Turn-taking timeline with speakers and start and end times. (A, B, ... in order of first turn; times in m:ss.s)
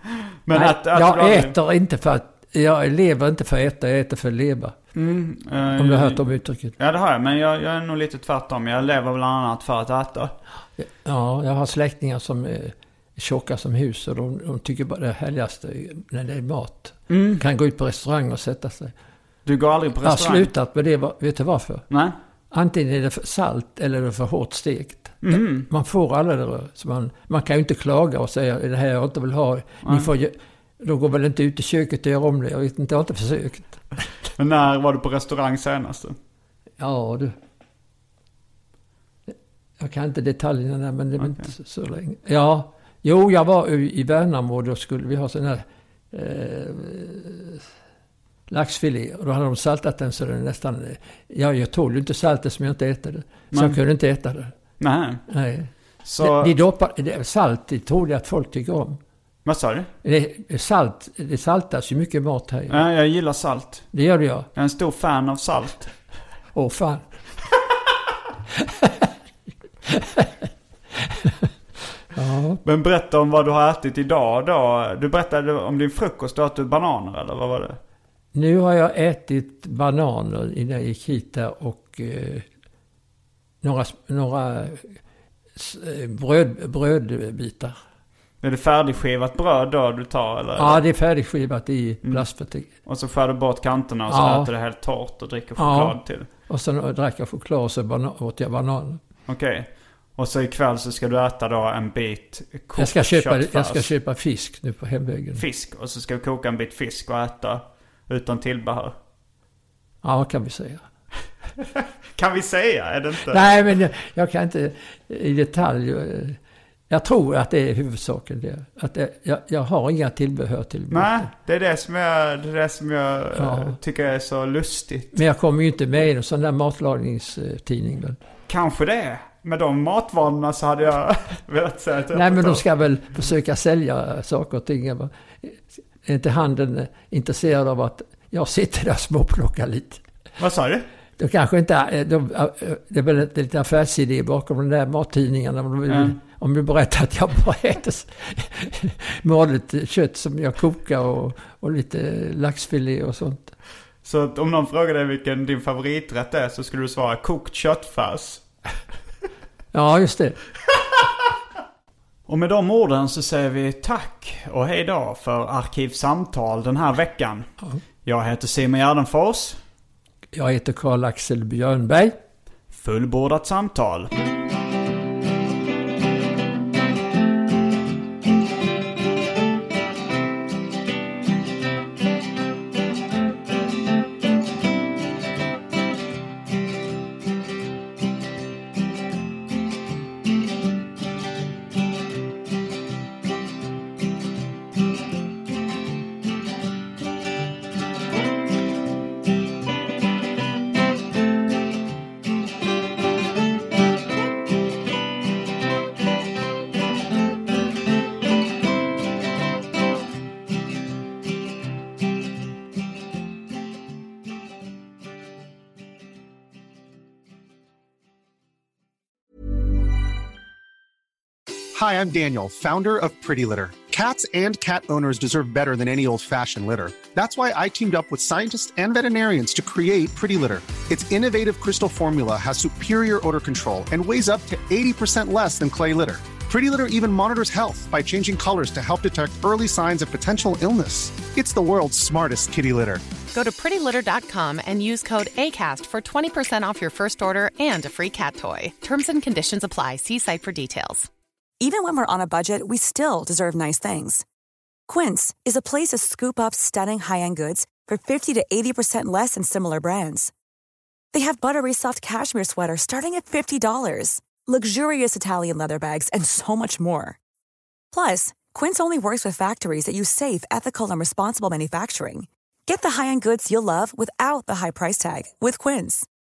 0:00.4-0:01.6 A
0:00.5-0:04.8 B
0:04.9-0:10.3 A
0:05.8-0:06.8 B
0:10.8-0:18.9 B
0:17.1-0:17.4 A
0:19.4-0:20.5 A
0:20.0-0:21.8 B
0:21.9-0:22.1 A
0:22.5-0:33.8 B
0:25.2-0:25.7 A
0:29.8-0:30.1 A
0:34.4-0:36.2 A
0:36.8-0:37.3 B
0:39.3-0:47.6 B
0:41.2-0:41.5 A
0:48.5-0:54.5 B
0:53.5-0:53.8 A
0:54.8-0:55.2 A
0:55.3-0:59.0 B
0:56.0-0:56.5 A
0:59.4-0:59.9 A
1:00.0-1:02.8 B
1:02.7-1:03.9 A
1:03.9-1:04.5 B
1:04.5-1:05.9 A
1:06.5-1:07.1 B
1:08.5-1:09.1 B
1:09.8-1:11.5 B
1:12.1-1:12.6 B
1:12.6-1:17.8 A
1:18.3-1:22.5 B
1:23.6-1:25.0 B
1:25.5-1:27.7 B
1:28.4-1:30.8 A
1:30.6-1:32.7 B
1:32.8-1:36.3 A
1:34.1-1:34.5 B
1:35.6-1:39.0 B
1:39.3-1:43.9 A
1:42.7-1:45.4 B
1:45.4-1:48.9 A
1:50.0-1:50.8 B
1:51.7-1:53.5 A
1:53.3-1:56.4 B
1:56.9-2:01.3 B
2:00.9-2:05.2 A
2:03.3-2:03.8 B
2:05.1-2:08.2 B
2:08.5-2:12.6 A
2:12.1-2:20.0 B
2:20.4-2:20.8 A
2:21.2-2:33.5 B
2:25.9-2:26.2 A
2:34.0-2:38.4 A
2:39.7-2:40.4 B
2:42.3-2:47.5 A
2:48.0-2:49.6 A
2:50.3-2:52.2 B
2:52.7-2:54.1 A
3:41.7-4:03.0 C
4:03.3-4:11.1 D
4:11.6-4:14.2 E
4:14.9-4:20.3 E
4:21.1-4:27.2 E
4:27.9-4:36.0 E